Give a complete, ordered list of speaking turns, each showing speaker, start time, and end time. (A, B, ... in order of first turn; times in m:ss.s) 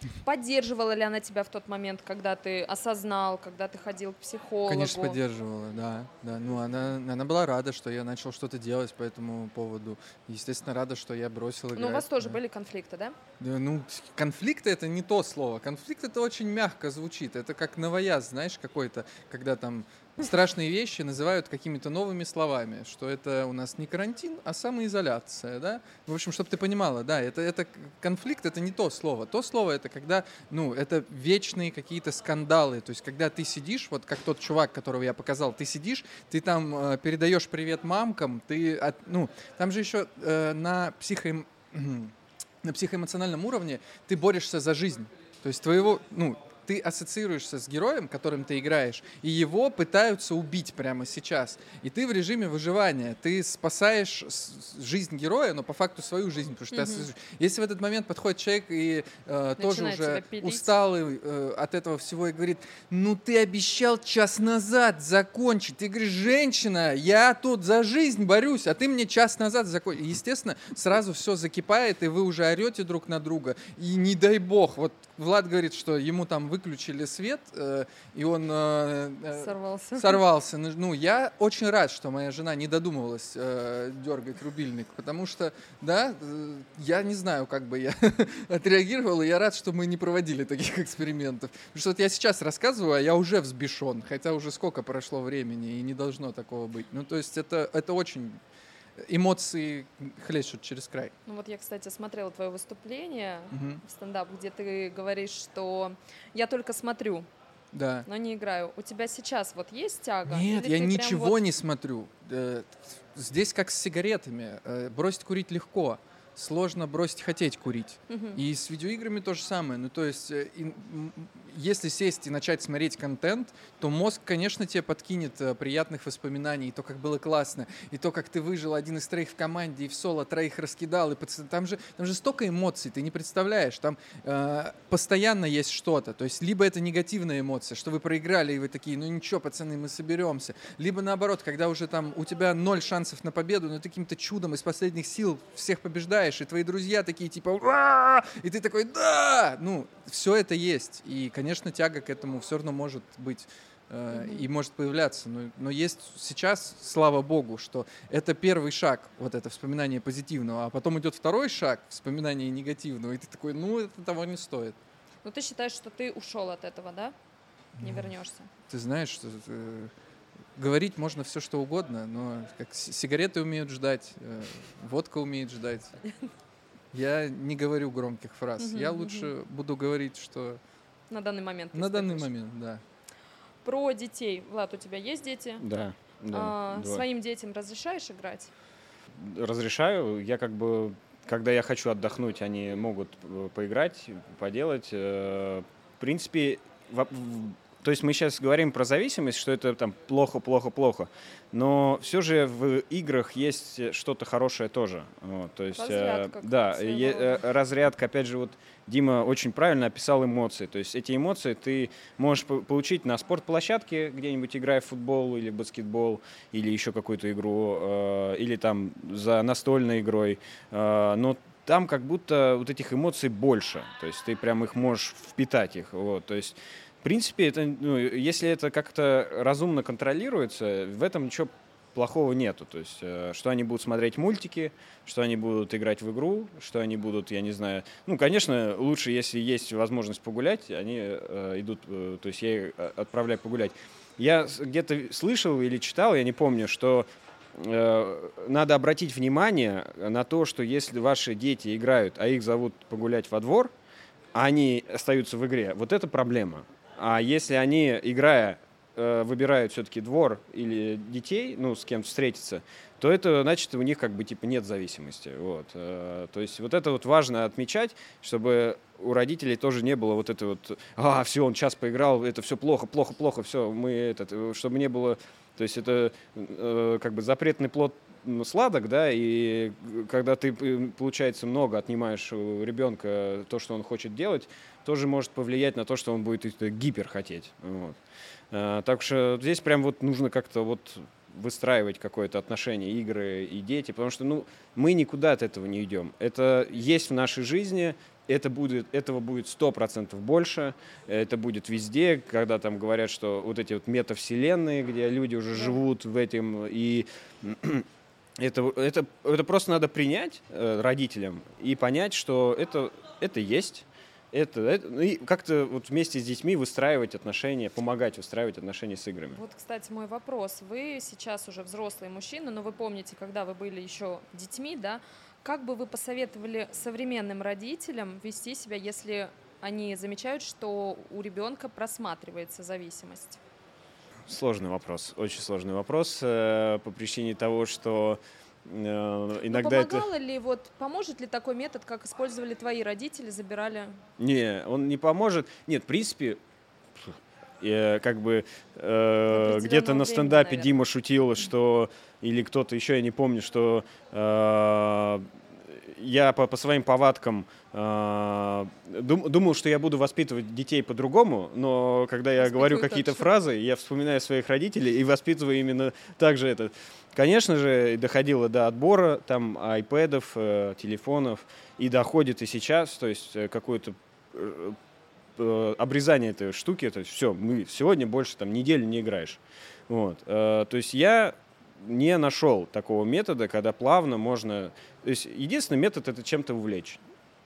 0:00.2-0:05.2 A
0:04.6-0:12.4 B
0:11.7-0:13.2 A
0:13.4-1:38.4 B
0:56.7-0:57.1 A
0:59.6-1:00.7 A
1:19.3-1:20.2 A
1:39.0-1:41.1 B
1:41.2-1:47.3 A
1:43.5-1:43.8 B
1:47.7-1:48.0 B
1:48.0-1:51.4 A
1:50.3-2:44.8 B
1:58.1-1:58.4 A
2:34.1-2:34.4 A
2:45.2-2:47.1 A
2:47.8-2:48.1 B
2:47.8-2:48.5 A
2:48.7-2:49.9 B
2:50.6-2:56.0 B
2:56.9-3:00.6 B
2:58.6-2:59.3 A
3:01.1-3:02.3 A
3:01.7-3:02.8 B
3:03.6-3:05.6 A
3:05.6-3:07.0 C
3:06.3-3:08.5 A
3:09.1-4:13.7 C
3:25.7-3:27.4 A
4:14.3-4:48.0 C
4:48.5-5:07.9 C
5:08.4-5:19.4 C
5:19.3-5:33.4 A
5:34.3-5:40.0 C
5:39.5-5:44.0 A
5:44.2-5:46.4 C
5:46.9-6:14.8 C
5:49.3-5:50.8 A
6:02.4-6:03.3 A
6:15.4-6:27.0 C